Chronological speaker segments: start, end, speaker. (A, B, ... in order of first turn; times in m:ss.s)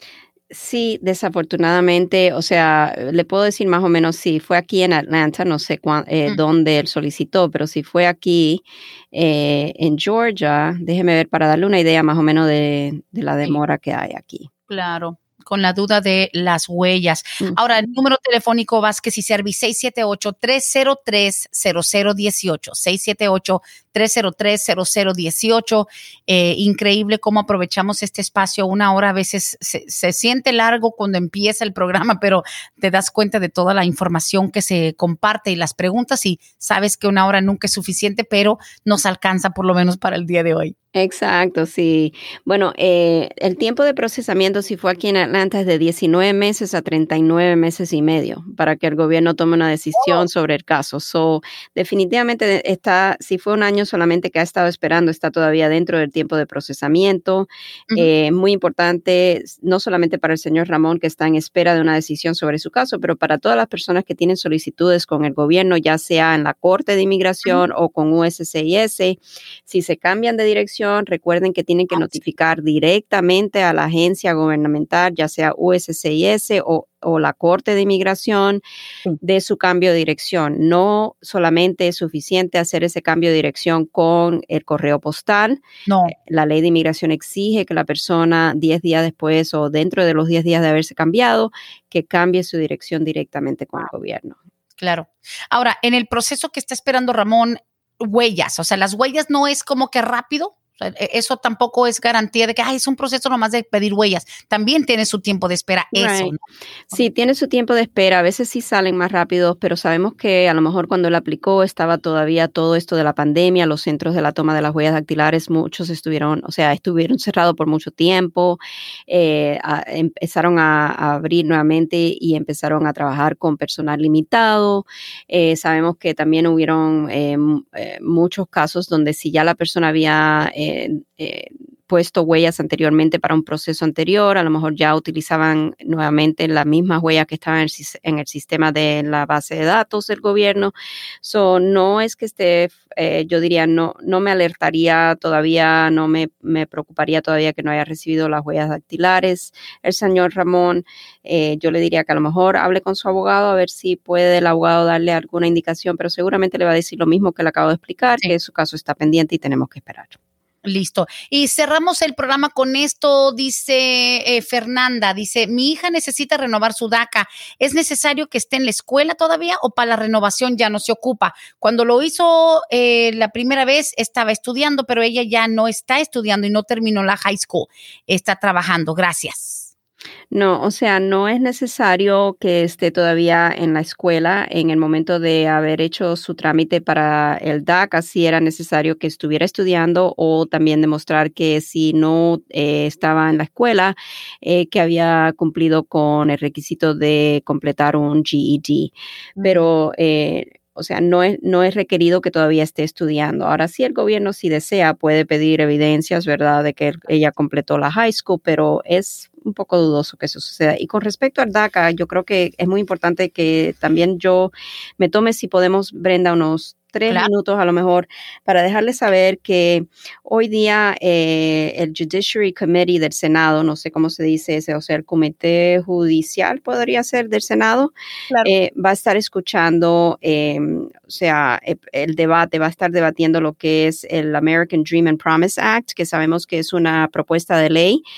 0:00.5-0:14.5 A
0:14.7-0:40.7 B
0:40.9-1:18.6 A
0:50.0-0:50.2 B
1:19.2-1:34.4 A
1:25.9-1:26.2 B
1:34.8-1:46.4 B
1:45.9-1:46.4 A
1:46.9-2:40.2 A
2:40.6-2:59.7 B
3:00.3-3:47.9 A
3:19.4-3:19.6 B
3:48.4-3:58.0 A